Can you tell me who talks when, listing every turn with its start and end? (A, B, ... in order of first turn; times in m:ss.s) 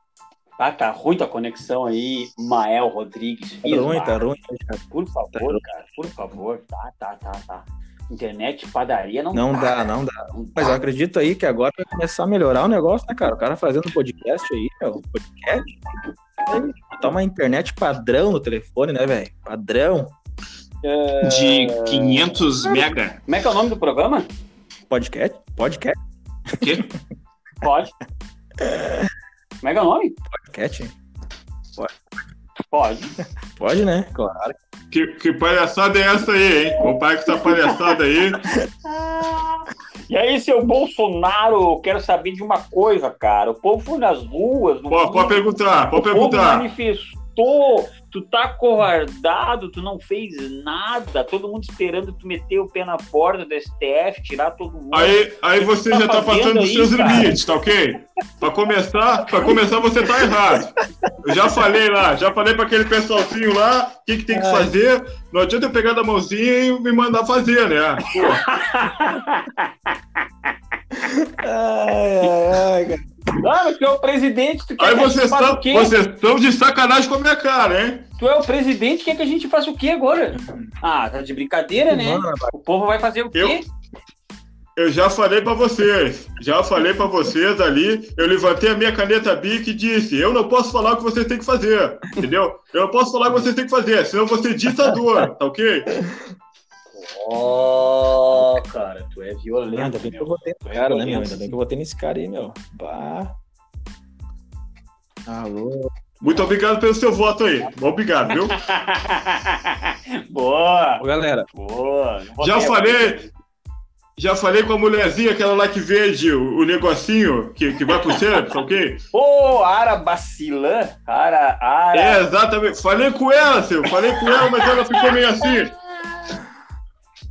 0:00.6-0:04.2 A
0:03.6-0:05.6 B
0:04.9-0:10.8 A
0:09.3-0:15.7 B
0:16.5-0:20.1 B
0:20.8-0:24.3 A
0:21.2-0:23.2 C
0:24.9-0:26.0 B
0:26.6-0:26.9 C
0:27.6-0:28.0 A
0:28.6-0:29.1 B
0:29.6-0:30.2 A
0:30.3-0:30.9 B
0:32.7-0:33.2 A
0:33.6-0:34.6 B
0:34.9-0:38.5 C
0:37.4-0:37.8 A
0:38.8-0:57.4 A
0:44.9-0:46.7 C
0:54.9-1:08.4 C
1:04.3-1:04.7 B
1:08.1-1:09.9 A
1:10.9-1:13.3 B
1:13.4-1:15.9 A
1:14.8-1:18.1 C
1:18.2-1:23.6 A
1:20.3-1:20.7 B
1:21.9-1:22.5 B
1:23.3-1:23.6 C
1:24.8-1:35.9 C
1:37.2-1:41.5 A
1:39.7-1:43.4 B
1:45.3-1:45.9 B
1:46.2-1:48.6 C
1:48.4-1:53.3 A
1:51.0-1:51.5 B
1:52.4-1:53.3 C
1:54.2-1:59.0 C
1:57.9-1:58.2 A
1:59.1-2:02.2 A
2:01.9-2:05.7 C
2:04.3-2:05.2 A